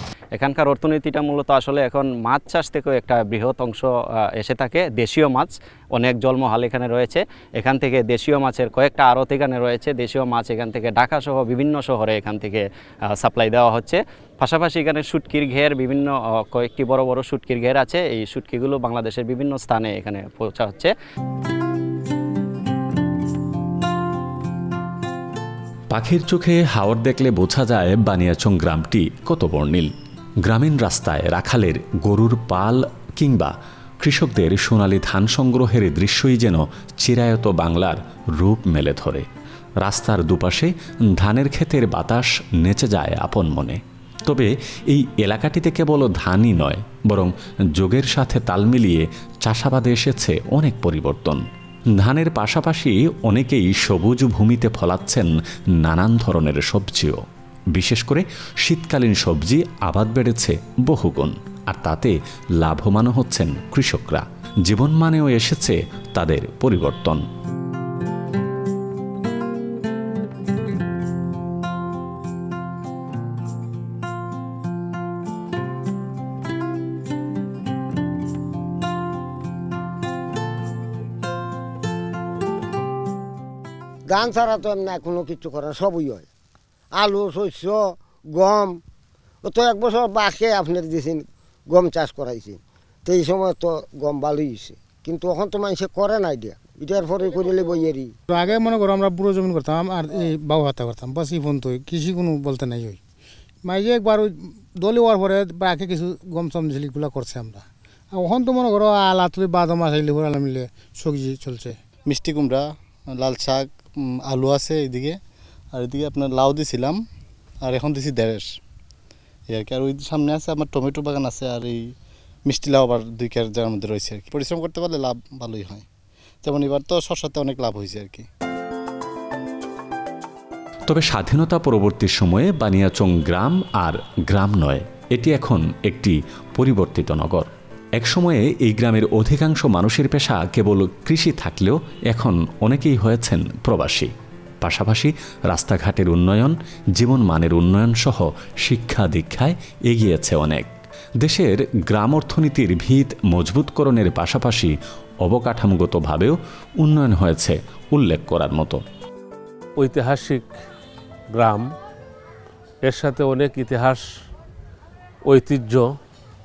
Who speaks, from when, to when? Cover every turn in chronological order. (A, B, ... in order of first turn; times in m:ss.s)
0:00.3-0:20.9 A
0:25.9-0:29.9 B
0:30.4-0:39.2 B
0:39.8-0:51.4 B
0:52.0-0:55.3 B
0:55.8-0:57.2 B
0:57.7-1:07.2 B
1:24.0-1:26.3 C
1:26.9-1:28.8 C
1:29.4-1:38.1 C
1:38.3-1:43.0 D
1:43.6-1:51.8 D
1:52.1-1:52.6 E
1:53.2-1:55.1 E
1:55.8-1:57.0 E
1:57.8-1:58.4 E
1:59.6-2:01.8 E
2:02.5-2:05.8 E
2:06.4-2:08.2 E
2:10.9-2:24.1 B
2:24.6-2:30.7 B
2:31.2-2:38.8 B
2:39.8-2:40.5 F
2:41.3-2:41.7 F
2:42.8-2:44.0 F
2:45.2-2:45.9 F